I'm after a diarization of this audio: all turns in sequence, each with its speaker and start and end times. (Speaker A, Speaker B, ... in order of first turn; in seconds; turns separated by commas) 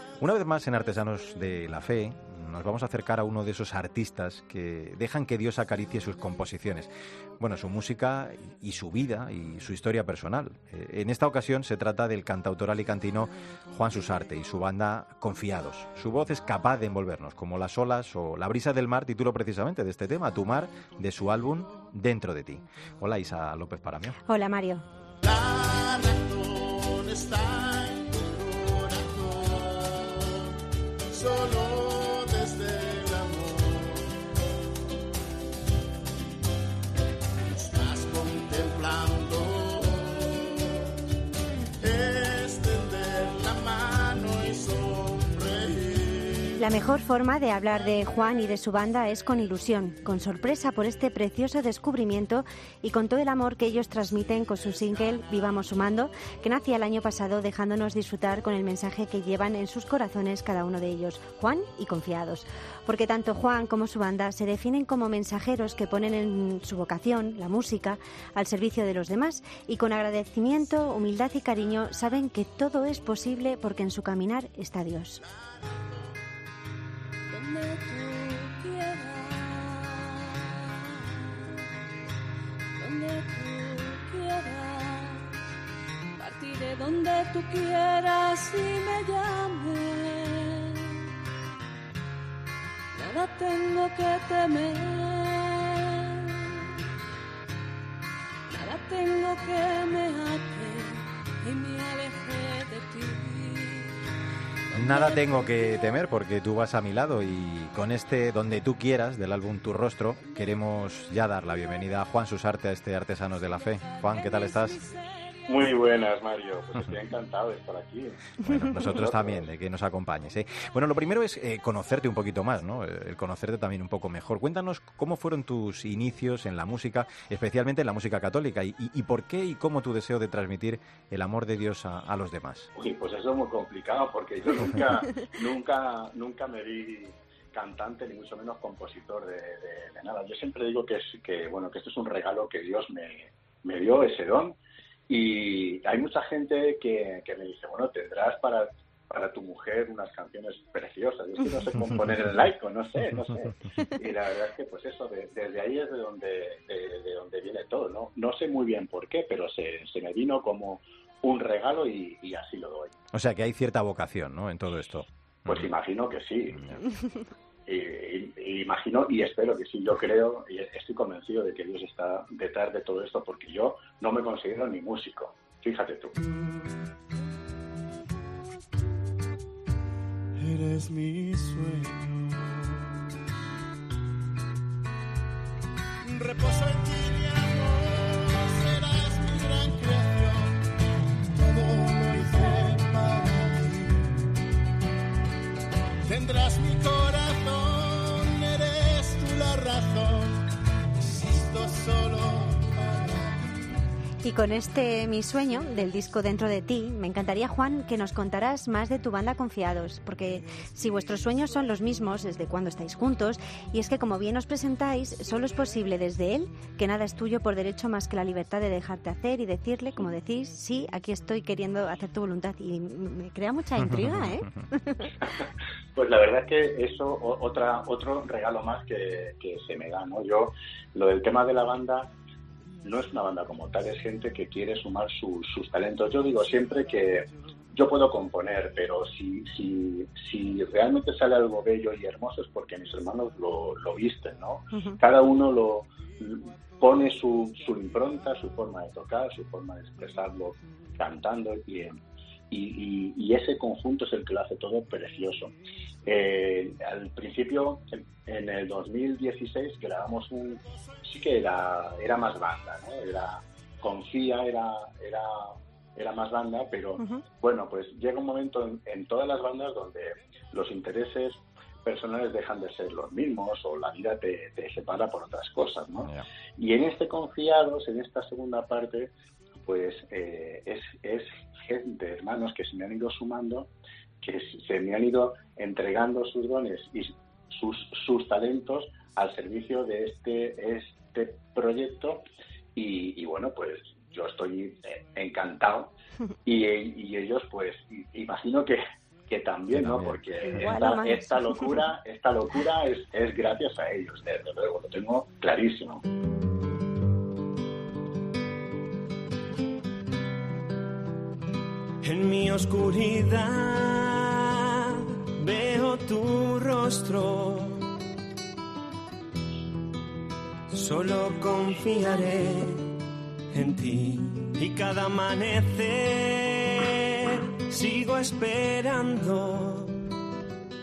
Speaker A: 0.2-24.2, Speaker B: 24.3-24.8, Speaker C: 25.2-30.5, Speaker C: 31.1-34.1, Speaker C: 37.5-40.7, Speaker C: 41.8-46.7, Speaker B: 46.6-75.2, Speaker D: 77.3-81.2, Speaker D: 82.8-85.3, Speaker D: 86.2-91.0, Speaker D: 93.0-96.6, Speaker D: 98.5-104.0, Speaker D: 104.7-106.0, Speaker A: 104.7-114.8, Speaker D: 110.2-112.0, Speaker D: 113.4-116.1, Speaker E: 115.5-119.5, Speaker A: 118.4-132.7, Speaker E: 132.8-144.6, Speaker E: 145.1-162.9, Speaker A: 163.1-165.7, Speaker E: 165.5-166.6, Speaker A: 166.5-166.8, Speaker E: 167.7-176.1, Speaker C: 176.3-176.5, Speaker C: 180.4-183.0, Speaker C: 186.0-190.6, Speaker C: 191.3-194.2, Speaker C: 196.1-200.4, Speaker C: 201.0-203.4, Speaker B: 204.2-225.1, Speaker A: 223.8-224.5, Speaker E: 225.9-232.1, Speaker E: 232.8-252.0, Speaker E: 252.5-255.5, Speaker E: 256.1-279.1, Speaker E: 279.6-292.2, Speaker E: 292.8-295.9, Speaker E: 296.4-306.0, Speaker A: 299.7-300.2, Speaker B: 300.5-301.8, Speaker F: 312.0-317.9, Speaker F: 320.7-322.9, Speaker F: 323.5-330.0